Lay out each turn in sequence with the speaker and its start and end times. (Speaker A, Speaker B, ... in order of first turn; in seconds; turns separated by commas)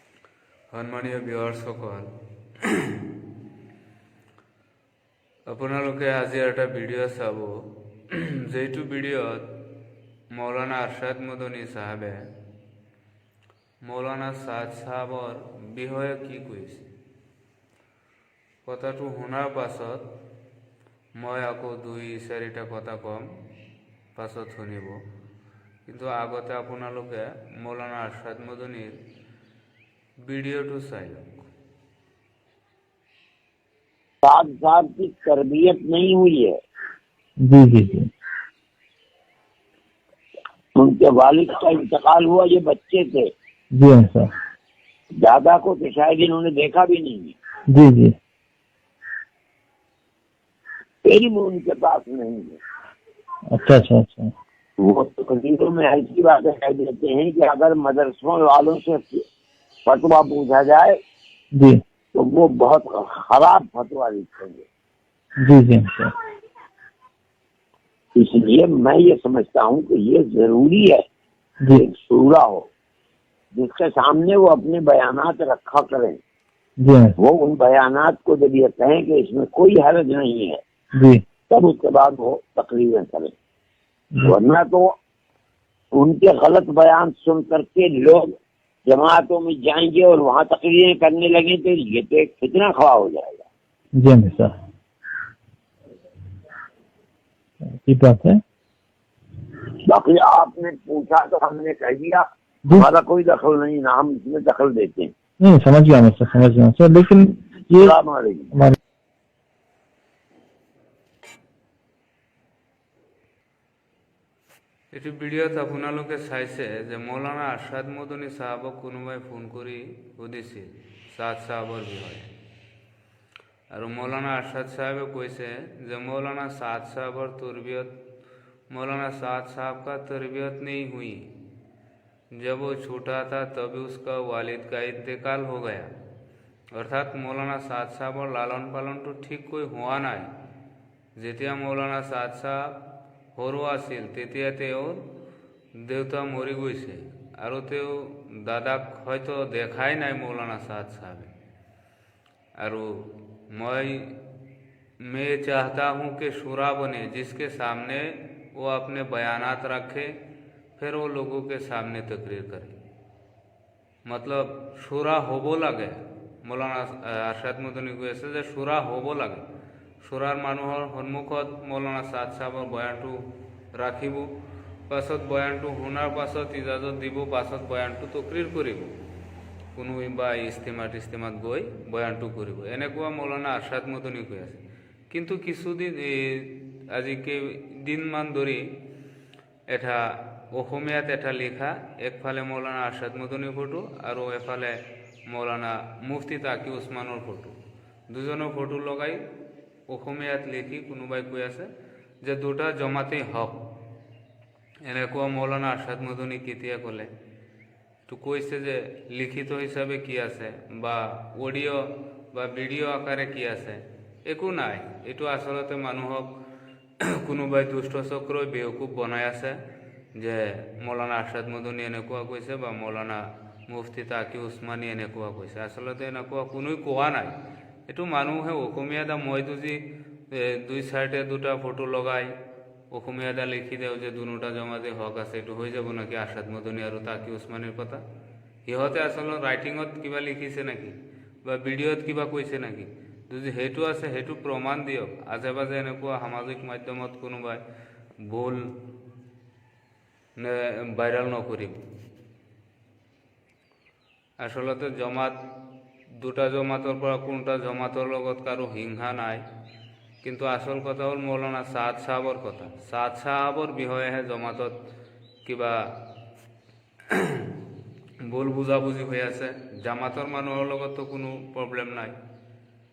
Speaker A: 0.7-2.1, Speaker A: 5.5-7.5, Speaker A: 8.1-9.4, Speaker A: 10.3-12.2, Speaker A: 13.8-16.9, Speaker A: 18.6-20.1, Speaker A: 21.2-23.3, Speaker A: 24.1-25.0, Speaker A: 25.9-28.9, Speaker A: 30.2-31.5, Speaker B: 34.2-36.5, Speaker C: 37.4-38.1, Speaker B: 40.8-43.3, Speaker C: 43.8-44.3, Speaker B: 45.1-47.4, Speaker C: 47.7-48.1, Speaker B: 51.0-52.6, Speaker C: 53.5-54.3, Speaker B: 54.8-59.2, Speaker B: 59.9-61.0, Speaker B: 62.1-64.7, Speaker C: 65.4-66.1, Speaker B: 68.2-71.0, Speaker B: 71.7-72.7, Speaker B: 73.5-76.2, Speaker C: 76.8-77.1, Speaker B: 77.2-80.6, Speaker C: 81.0-81.2, Speaker B: 81.5-83.3, Speaker B: 84.2-84.9, Speaker B: 85.9-88.3, Speaker B: 88.9-93.5, Speaker C: 94.0-94.5, Speaker C: 97.8-98.4, Speaker B: 99.9-105.1, Speaker C: 105.4-107.9, Speaker B: 107.7-108.5, Speaker A: 114.9-122.3, Speaker A: 123.7-127.9, Speaker A: 128.7-131.3, Speaker A: 132.4-135.9, Speaker A: 136.8-140.3, Speaker A: 141.2-142.7, Speaker A: 143.4-145.0, Speaker A: 145.8-151.3, Speaker A: 152.6-154.1, Speaker A: 155.0-160.1, Speaker A: 160.8-162.8, Speaker A: 164.1-169.4, Speaker A: 170.0-173.2, Speaker A: 173.8-174.3, Speaker A: 174.9-178.9, Speaker A: 179.8-188.6, Speaker A: 189.7-194.8, Speaker A: 195.3-197.5, Speaker A: 198.1-199.2, Speaker A: 199.9-201.7, Speaker A: 202.2-203.6, Speaker A: 204.8-207.1, Speaker A: 208.1-216.3, Speaker A: 217.2-219.6, Speaker A: 220.2-227.3, Speaker A: 227.9-232.3, Speaker A: 232.9-238.0, Speaker A: 238.7-247.6, Speaker A: 248.2-248.6, Speaker A: 250.4-251.8, Speaker A: 254.4-255.4, Speaker A: 256.2-259.4, Speaker A: 260.2-264.8, Speaker A: 265.4-265.8, Speaker A: 267.1-267.5, Speaker A: 268.3-272.1